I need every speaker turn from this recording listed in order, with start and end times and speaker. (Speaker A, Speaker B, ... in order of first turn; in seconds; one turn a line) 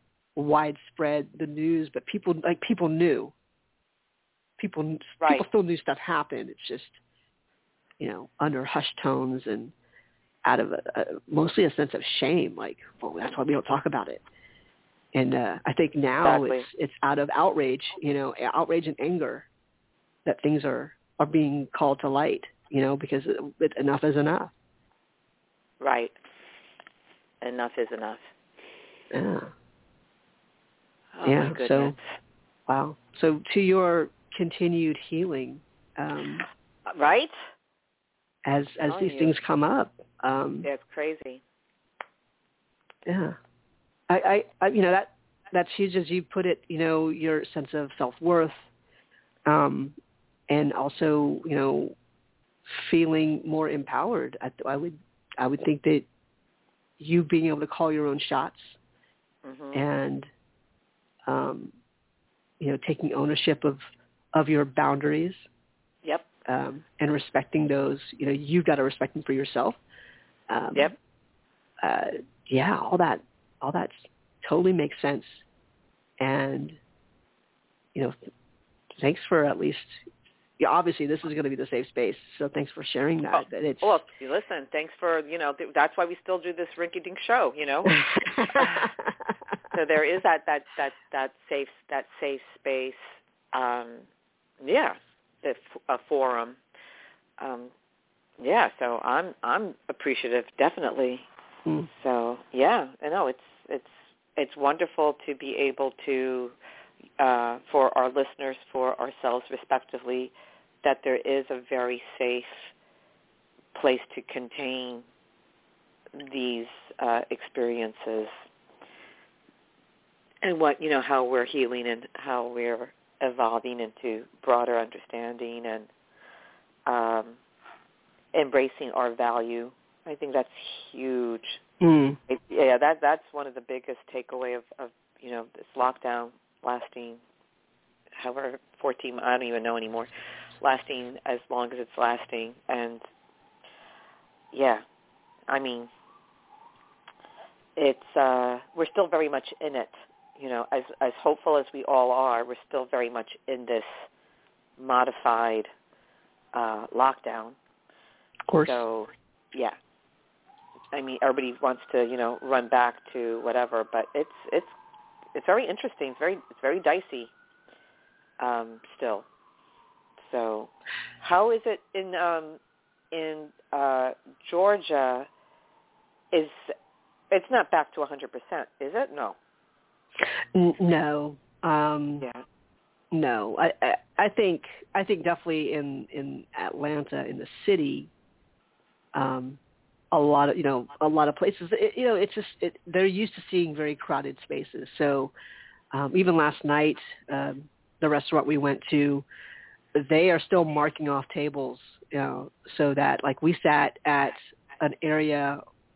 Speaker A: 0.3-3.3
Speaker A: 4.6-7.0
Speaker B: 5.2-5.4
Speaker A: 8.0-9.7
Speaker A: 10.4-14.2
Speaker A: 15.1-19.5
Speaker B: 16.2-16.6
Speaker A: 20.2-24.5
Speaker B: 25.8-26.1
Speaker B: 27.4-28.3
Speaker A: 29.1-29.5
Speaker B: 31.1-32.1
Speaker A: 31.2-31.9
Speaker A: 32.7-36.5
Speaker B: 36.9-37.3
Speaker A: 38.4-40.7
Speaker B: 38.9-39.4
Speaker B: 40.6-41.4
Speaker A: 43.0-43.4
Speaker A: 44.1-48.7
Speaker A: 49.5-50.0
Speaker A: 50.5-52.0
Speaker A: 52.6-56.0
Speaker A: 57.0-58.8
Speaker B: 59.4-59.9
Speaker A: 59.7-60.3
Speaker A: 61.3-61.7
Speaker A: 62.6-63.8
Speaker A: 64.3-65.5
Speaker A: 66.5-69.8
Speaker A: 70.5-70.9
Speaker A: 71.8-75.4
Speaker A: 76.2-76.8
Speaker A: 78.9-80.0
Speaker A: 80.6-84.0
Speaker B: 83.3-88.0
Speaker A: 87.9-89.3
Speaker B: 88.5-88.9
Speaker B: 89.7-94.1
Speaker B: 94.6-96.6
Speaker B: 97.4-97.7
Speaker B: 98.4-101.3
Speaker B: 101.9-106.5
Speaker B: 107.2-112.7
Speaker B: 113.7-115.0
Speaker B: 116.2-118.3
Speaker B: 120.4-125.9
Speaker B: 126.9-127.4
Speaker B: 128.3-131.6
Speaker A: 131.8-132.2
Speaker B: 132.3-137.2
Speaker B: 138.2-140.1
Speaker B: 140.6-143.0
Speaker B: 144.5-144.8
Speaker B: 145.5-145.9
Speaker B: 147.8-154.1
Speaker B: 154.8-155.7
Speaker B: 156.5-157.6
Speaker A: 158.5-158.8
Speaker B: 158.6-159.7
Speaker B: 160.9-164.7
Speaker B: 165.3-167.3
Speaker B: 168.4-169.2
Speaker B: 170.2-172.6
Speaker B: 173.1-175.3
Speaker B: 176.3-176.7
Speaker B: 177.3-179.3
Speaker A: 180.2-182.2
Speaker A: 183.1-188.1
Speaker A: 189.1-189.6
Speaker A: 190.1-195.3
Speaker A: 195.9-199.2
Speaker A: 199.9-205.6